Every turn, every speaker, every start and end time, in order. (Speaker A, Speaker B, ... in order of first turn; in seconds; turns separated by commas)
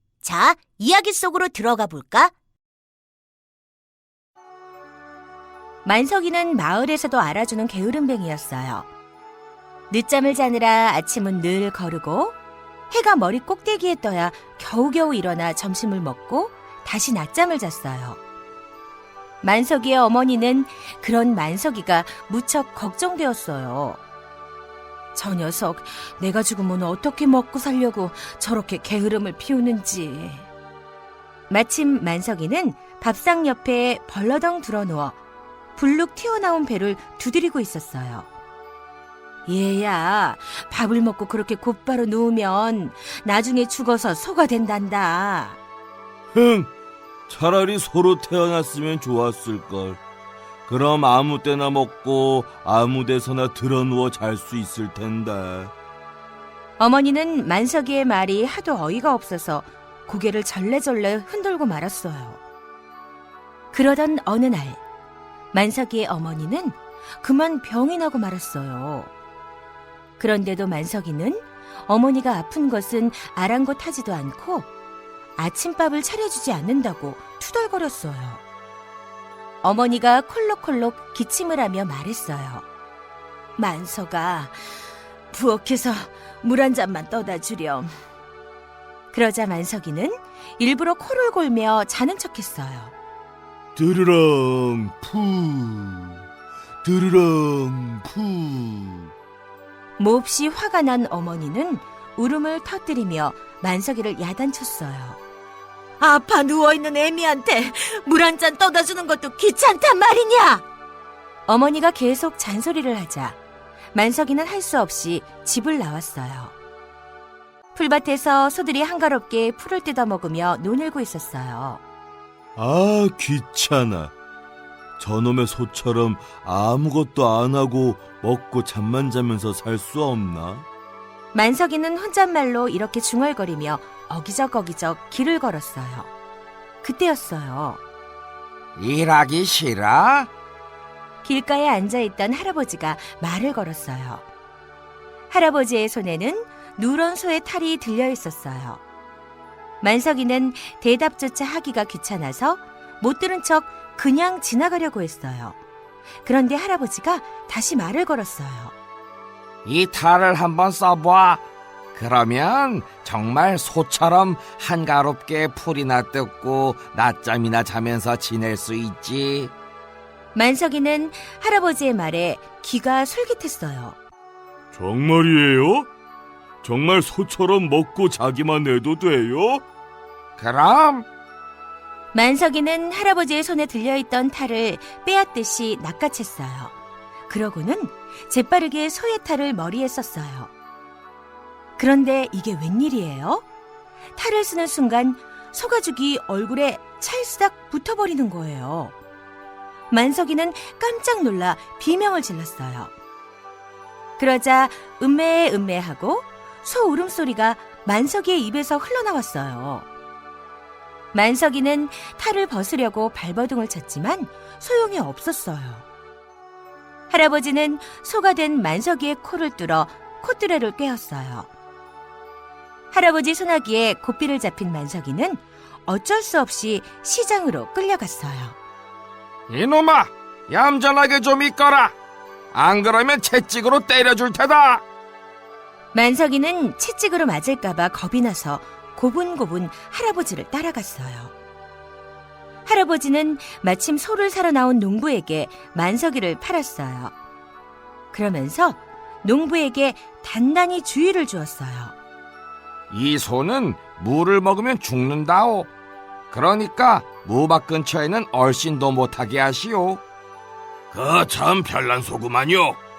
Speaker A: 0.2-2.3, Speaker A: 5.8-8.9, Speaker A: 9.9-12.3, Speaker A: 12.9-18.2, Speaker A: 19.4-24.0, Speaker A: 25.1-30.5, Speaker A: 31.5-35.2, Speaker A: 35.8-38.3, Speaker A: 39.5-45.6, Speaker B: 46.3-46.7, Speaker B: 47.3-50.0, Speaker B: 50.7-55.7, Speaker A: 56.8-62.4, Speaker A: 63.7-64.8, Speaker A: 65.5-69.1, Speaker A: 70.2-74.7, Speaker A: 75.3-78.4, Speaker A: 79.6-82.6, Speaker A: 83.6-84.6, Speaker A: 85.3-87.9, Speaker A: 89.1-92.9, Speaker B: 93.8-96.2, Speaker B: 96.8-99.1, Speaker A: 100.0-105.2, Speaker A: 106.0-110.6, Speaker A: 111.5-113.4, Speaker A: 113.9-116.5, Speaker A: 117.7-121.8, Speaker B: 122.5-124.1, Speaker B: 125.0-130.6, Speaker A: 131.3-136.1, Speaker A: 136.8-137.8, Speaker C: 138.8-140.3, Speaker A: 141.2-144.2, Speaker A: 145.3-148.8, Speaker A: 149.8-155.6, Speaker A: 156.2-158.7, Speaker C: 159.6-161.4, Speaker C: 161.9-169.5, Speaker A: 170.3-174.0, Speaker B: 174.7-175.9, Speaker B: 176.6-179.6, Speaker C: 180.4-181.1, Speaker A: 182.1-186.7, Speaker A: 187.3-190.5, Speaker A: 191.8-193.4, Speaker A: 194.2-198.9, Speaker A: 199.9-202.9, Speaker A: 204.2-209.9, Speaker A: 211.1-215.8, Speaker A: 217.1-221.5, Speaker A: 222.9-228.6, Speaker C: 229.5-231.9, Speaker C: 232.5-234.8, Speaker A: 235.9-241.3, Speaker A: 242.6-247.1, Speaker A: 248.1-251.9, Speaker C: 252.9-255.7, Speaker C: 256.3-260.0, Speaker C: 260.9-262.8